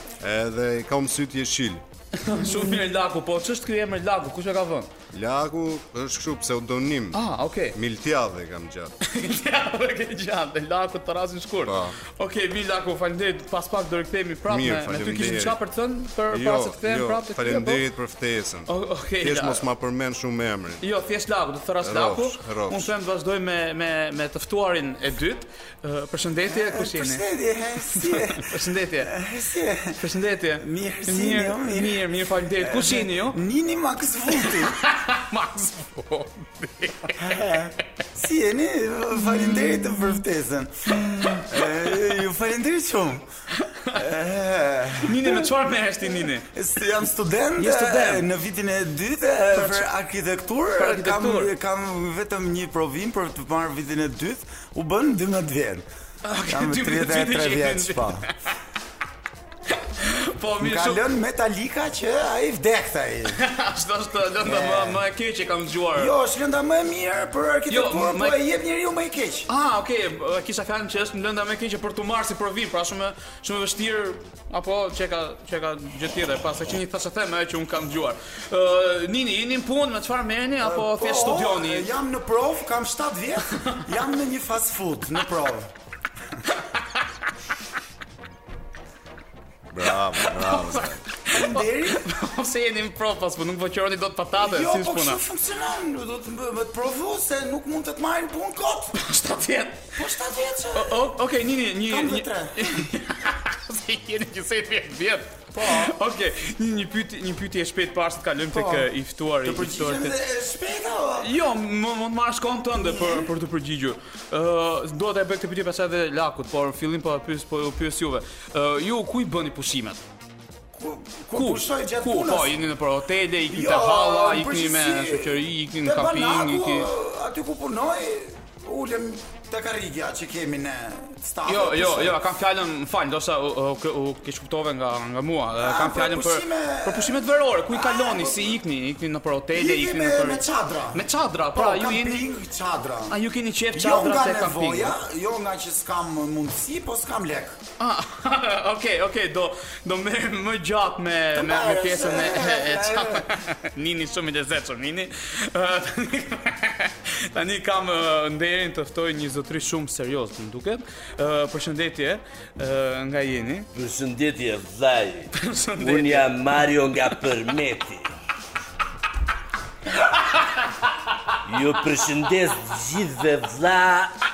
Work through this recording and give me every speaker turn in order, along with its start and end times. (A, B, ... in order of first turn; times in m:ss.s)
0:00.2-0:01.8 A
0:02.2-0:04.9 B
0:05.1-0:07.2 A
0:07.1-0:07.8 B
0:07.7-0:08.9 A
0:09.0-0:17.8 B
0:11.7-0:12.0 A
0:14.5-0:15.6 A
0:16.3-0:20.8 A
0:18.7-0:19.7 B
0:20.8-0:27.2 B
0:21.8-0:22.9 A
0:26.5-0:30.0 C
0:27.9-0:29.1 B
0:30.0-0:33.4 B
0:30.6-0:32.1 C
0:32.6-0:34.8 C
0:34.4-0:37.4 B
0:37.2-0:43.3 C
0:41.2-0:41.6 B
0:43.6-0:44.0 B
0:43.9-0:45.5 C
0:45.0-0:46.5 B
0:46.5-0:55.8 C
0:47.6-0:48.2 B
0:49.6-0:49.9 B
0:50.8-0:51.5 B
0:56.2-0:58.3 B
0:56.4-0:58.3 C
0:59.7-1:01.0 B
1:00.6-1:03.4 C
1:03.3-1:06.1 B
1:04.4-1:05.0 C
1:06.0-1:09.5 C
1:07.7-1:08.4 B
1:09.5-1:21.9 B
1:20.6-1:25.7 C
1:29.7-1:31.0 A
1:29.9-1:35.2 B
1:31.3-1:32.1 C
1:34.4-1:39.0 C
1:39.0-1:39.9 B
1:40.0-1:41.1 C
1:40.7-1:50.2 B
1:41.9-1:42.9 C
1:45.5-1:46.0 C
1:48.5-1:48.9 C
1:49.4-1:51.3 C
1:51.2-2:00.0 B
1:52.8-1:53.3 C
2:00.7-2:02.6 C
2:01.4-2:06.9 B
2:03.5-2:12.2 C
2:11.5-2:22.3 B
2:15.6-2:18.6 C
2:19.6-2:23.2 C
2:23.1-2:25.0 B
2:23.7-2:27.6 C
2:27.8-2:43.7 B
2:31.4-2:33.3 C
2:43.7-2:48.2 D
2:45.3-2:46.3 B
2:51.4-2:54.2 D